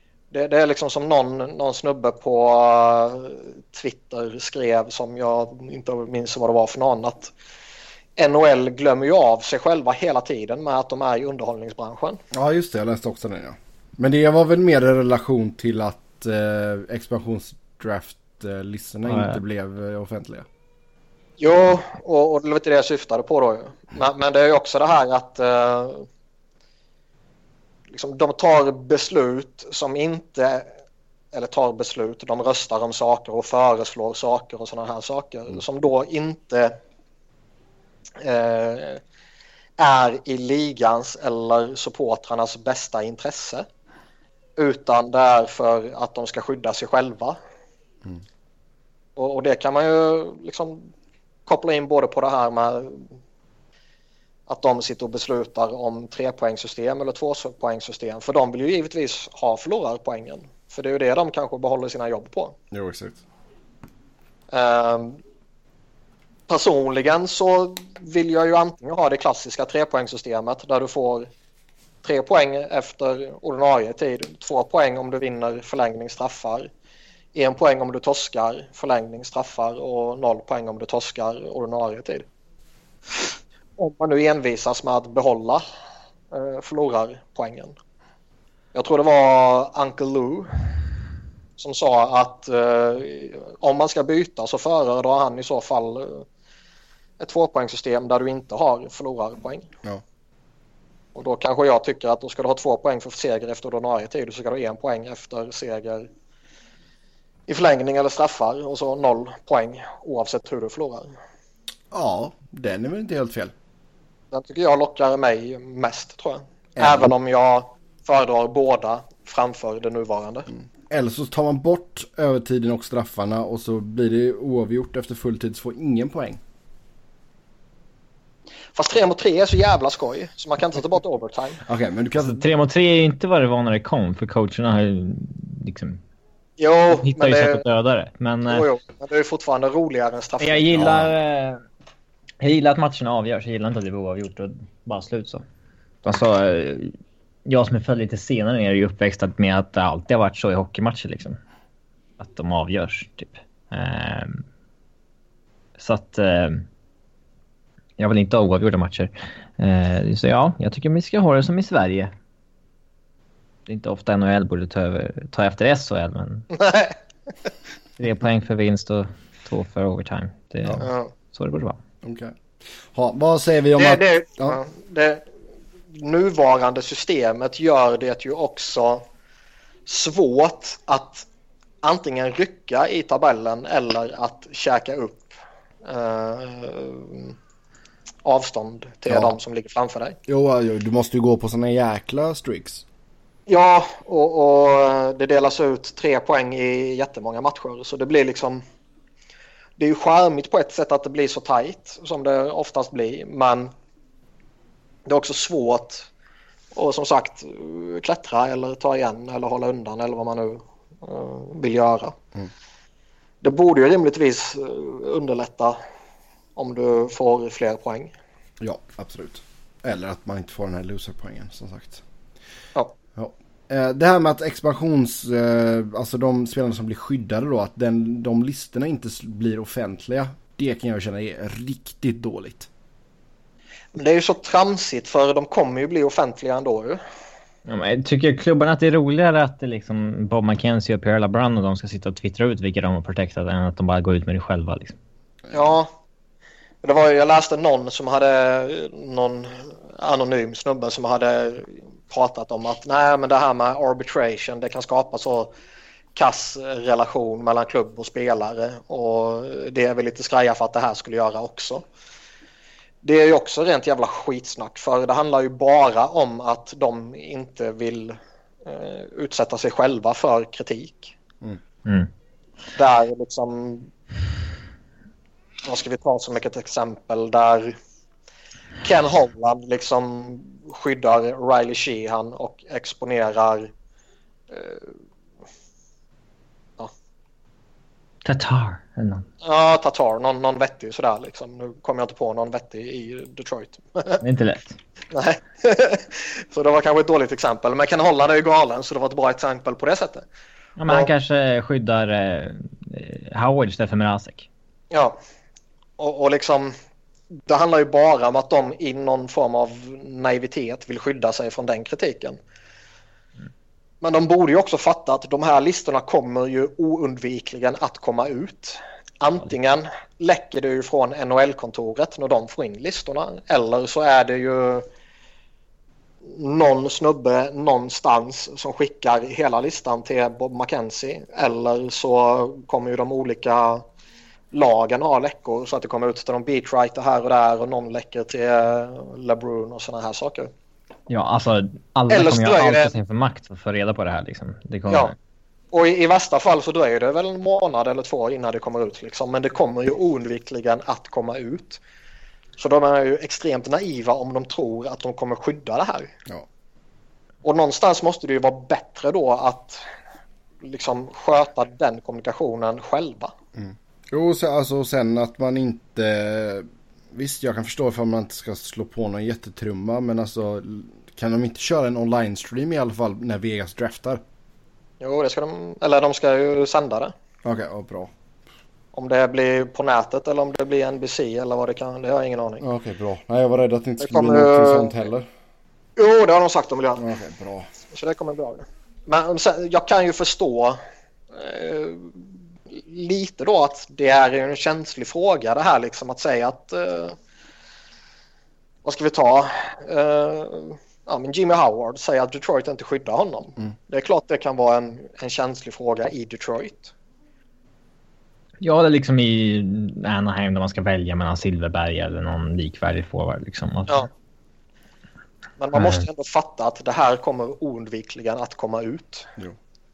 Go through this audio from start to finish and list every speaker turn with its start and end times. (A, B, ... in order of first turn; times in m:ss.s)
0:00.3-0:07.3 A
0:08.2-0:12.2 A
0:12.3-0:20.5 B
0:19.1-0:19.4 C
0:21.4-0:26.1 A
0:27.9-0:30.7 A
0:31.3-0:36.8 A
0:38.2-0:39.0 A
0:39.8-0:43.7 A
0:44.6-0:47.4 A
0:49.2-0:50.9 A
0:51.4-0:53.1 A
0:54.5-1:02.6 A
1:02.7-1:03.2 B
1:04.5-1:05.2 A
1:06.5-1:11.3 A
1:12.0-1:16.7 A
1:17.3-1:22.2 A
1:23.8-1:25.6 A
1:26.3-1:27.7 A
1:28.7-1:30.5 A
1:31.6-1:36.2 A
1:37.2-1:39.7 A
1:41.1-1:46.1 A
1:47.5-1:51.1 A
1:51.9-1:53.5 B
1:54.3-2:00.5 A
1:56.8-1:57.1 B
2:00.5-2:06.4 B
2:08.7-2:11.6 A
2:11.6-2:12.4 B
2:12.2-2:16.0 C
2:16.6-2:17.6 A
2:16.9-2:18.7 C
2:18.5-2:21.1 A
2:20.4-2:21.6 C
2:22.4-2:25.4 C
2:26.0-2:26.9 C
2:27.5-2:31.4 C
2:32.2-2:34.4 C
2:35.8-2:36.6 C
2:38.0-2:42.1 C
2:43.7-2:46.5 C
2:46.5-2:47.0 A
2:48.0-2:51.8 C
2:50.8-2:51.1 A
2:52.0-2:54.6 B
2:53.8-2:55.2 A
2:55.9-2:59.0 A
2:59.8-3:01.2 A
3:01.8-3:07.3 A
3:08.2-3:10.2 A
3:09.1-3:09.3 B
3:10.3-3:12.8 B
3:13.5-3:18.6 A
3:19.8-3:23.7 A
3:25.0-3:26.1 A
3:26.7-3:32.2 A
3:33.4-3:35.8 A
3:36.6-3:38.1 A
3:38.6-3:42.0 B
3:43.2-3:52.7 B
3:53.9-3:57.0 A
3:57.7-4:05.0 C
4:05.5-4:05.9 A
4:06.8-4:15.5 A
4:16.1-4:21.8 A
4:23.0-4:31.1 A
4:31.8-4:32.1 C
4:32.8-4:33.9 A
4:35.6-4:37.8 A
4:38.8-4:43.7 A
4:44.5-4:44.9 A
4:48.2-4:49.2 C
4:49.4-4:54.2 A
4:54.2-4:54.8 C
4:55.1-5:00.2 A
5:00.8-5:04.5 C
5:04.9-5:05.2 A
5:06.0-5:06.7 A
5:07.5-5:12.4 A
5:14.0-5:24.9 A
5:26.2-5:33.8 A
5:34.5-5:40.5 A
5:41.1-5:45.1 C
5:42.1-5:42.9 A
5:44.9-5:45.1 A
5:45.7-5:51.8 A
5:52.6-5:56.1 A
5:57.4-5:59.8 A
6:00.6-6:03.3 A
6:03.6-6:14.2 B
6:15.0-6:17.1 A
6:17.4-6:18.1 B
6:18.9-6:22.6 A
6:22.6-6:25.3 B
6:24.0-6:24.9 A
6:26.0-6:27.0 A
6:27.0-6:27.7 B
6:27.9-6:30.8 A
6:31.3-6:37.2 A
6:38.8-6:46.9 A
6:48.6-6:54.0 C
6:55.6-6:59.3 A
6:55.7-6:56.1 C